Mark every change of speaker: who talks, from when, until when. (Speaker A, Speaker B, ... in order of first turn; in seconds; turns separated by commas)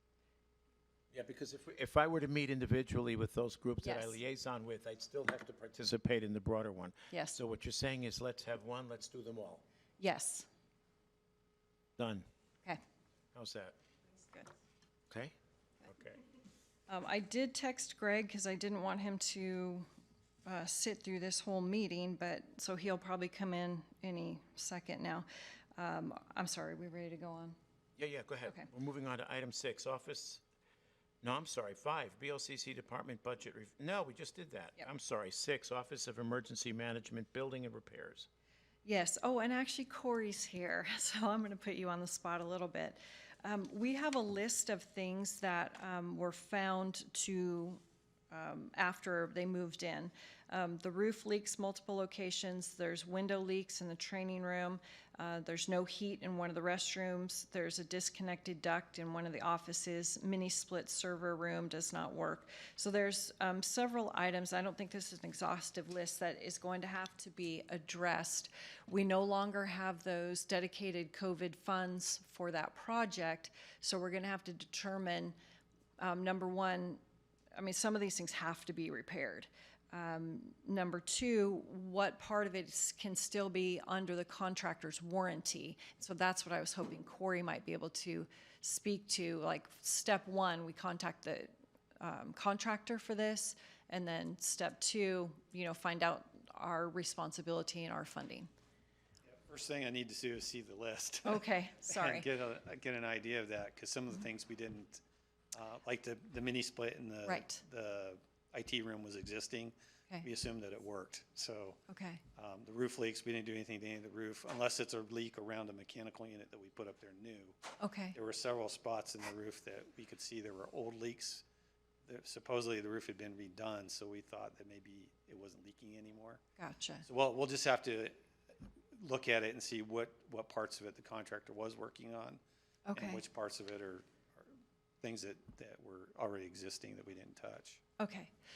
Speaker A: 1.1-9.6, Speaker B: 3.8-4.2, Speaker B: 7.1-7.4, Speaker B: 10.0-10.5, Speaker A: 12.0-12.2, Speaker A: 13.3-13.8, Speaker B: 14.2-14.5, Speaker A: 15.8-16.2, Speaker B: 16.9-19.9, Speaker B: 20.4-27.6, Speaker A: 28.0-30.4, Speaker A: 31.2-38.3, Speaker B: 38.8-47.8, Speaker B: 48.3-75.3, Speaker B: 76.0-77.0, Speaker B: 77.5-98.5, Speaker C: 99.3-105.0, Speaker B: 101.2-102.3, Speaker C: 105.5-111.8, Speaker B: 107.2-107.6, Speaker B: 111.9-112.2, Speaker C: 112.3-117.6, Speaker B: 117.8-118.2, Speaker C: 118.1-121.4, Speaker C: 122.0-126.4, Speaker B: 126.6-127.0, Speaker C: 127.0-128.2, Speaker C: 128.9-132.4, Speaker B: 132.9-133.2, Speaker C: 132.9-134.5, Speaker C: 135.0-137.8, Speaker B: 138.0-138.3